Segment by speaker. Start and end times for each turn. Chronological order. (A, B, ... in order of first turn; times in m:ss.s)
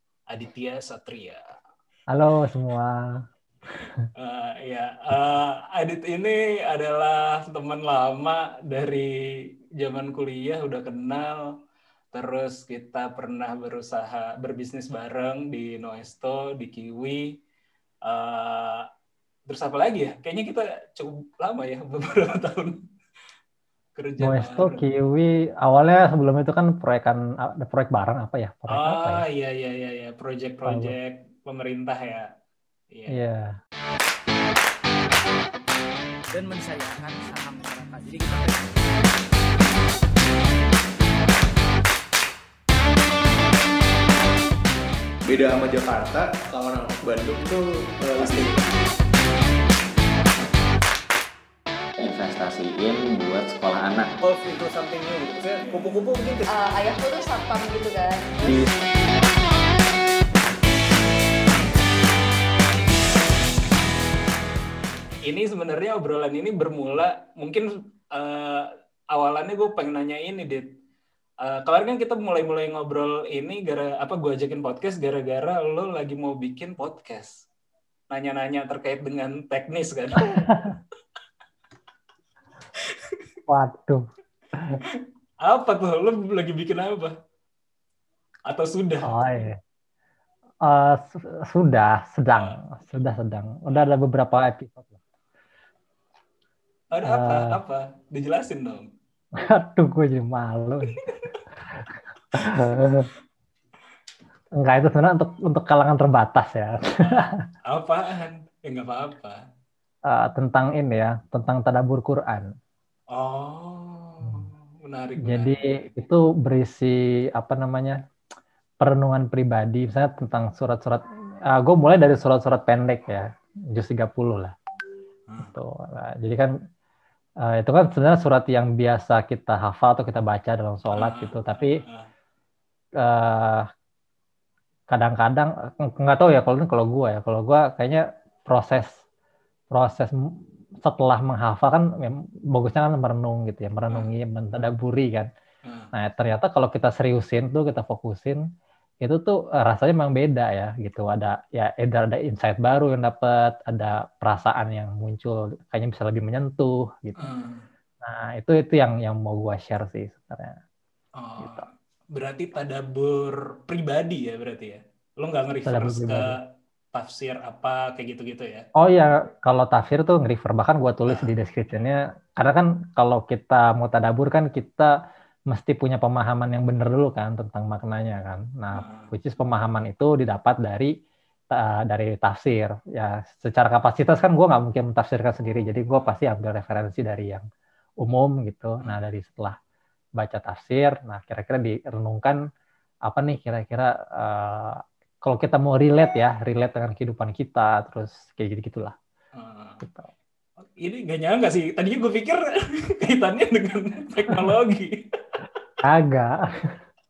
0:00.3-0:01.4 A
0:02.1-0:03.2 B
0:03.7-0:04.0 B
0:04.2-0:11.5 A
0:12.1-0:17.4 A
0:18.0-0:18.8 A
0:19.5-0:22.8 A
0:24.0-0:24.8 A
0:24.2-0:29.2 B
0:28.7-0:32.3 A
0:30.6-0:30.9 B
0:32.9-0:33.2 A
0:33.1-0:33.5 B
0:36.3-0:39.1 C
0:45.2-0:48.6 D
0:52.0-0:54.1 E
0:54.3-0:56.4 A
0:56.5-0:58.7 F
1:05.2-1:10.7 A
1:11.4-1:17.4 A
1:18.1-1:20.6 A
1:20.4-1:20.7 B
1:22.8-1:23.2 A
1:23.5-1:24.0 B
1:25.4-1:27.1 A
1:28.5-1:29.1 A
1:29.0-1:29.6 B
1:30.6-1:34.9 B
1:36.9-1:38.9 A
1:37.0-1:37.6 B
1:39.4-1:41.0 B
1:42.3-1:43.1 B
1:44.6-1:47.4 B
1:47.0-1:49.4 A
1:50.0-1:52.5 B
1:53.1-1:55.5 A
1:55.2-1:58.0 B
1:58.8-2:04.5 B
2:05.4-2:06.5 B
2:07.4-2:11.8 B
2:10.9-2:12.1 A
2:13.0-2:13.7 B
2:14.9-2:19.0 B
2:19.7-2:25.3 B
2:25.6-2:25.9 A
2:25.9-2:28.4 B
2:29.0-2:37.3 B
2:37.2-2:37.7 A
2:38.0-2:40.6 B
2:41.2-2:46.4 A
2:45.6-2:46.3 B
2:46.9-2:48.6 A
2:48.8-2:54.9 B
2:51.0-2:51.3 A
2:55.5-3:00.9 B
2:58.7-2:59.1 A
3:01.5-3:07.4 B
3:05.9-3:06.2 A
3:08.0-3:09.6 B
3:10.2-3:12.4 B
3:13.0-3:18.9 B
3:19.3-3:19.8 A
3:19.8-3:20.1 B
3:20.8-3:25.4 A
3:25.8-3:26.7 B